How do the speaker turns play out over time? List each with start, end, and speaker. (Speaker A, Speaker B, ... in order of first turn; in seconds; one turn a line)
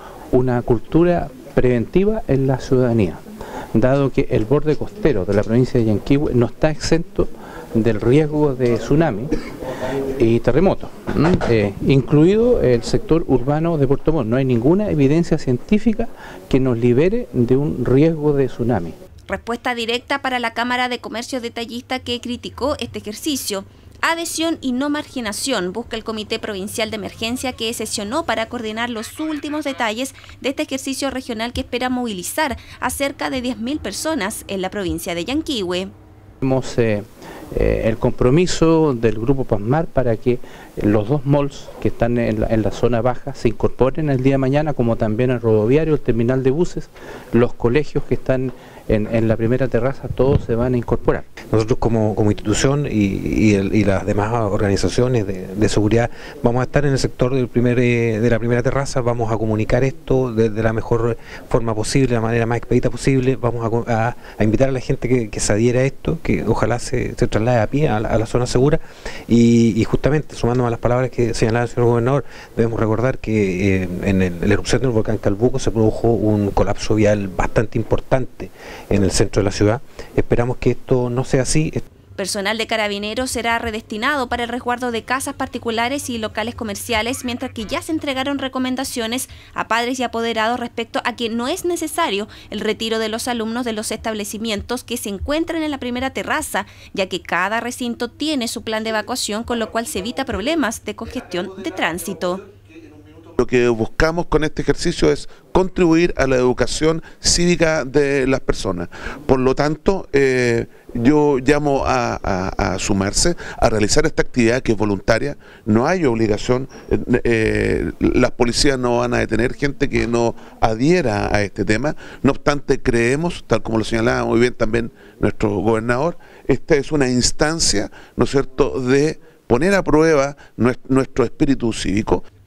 Speaker A: 0.3-3.2
Speaker A: 3.7-9.3
Speaker A: 10.2-18.9
Speaker B: 19.3-35.9
Speaker A: 36.4-51.3
Speaker C: 51.5-81.8
Speaker B: 82.2-102.4
Speaker D: 103.4-132.2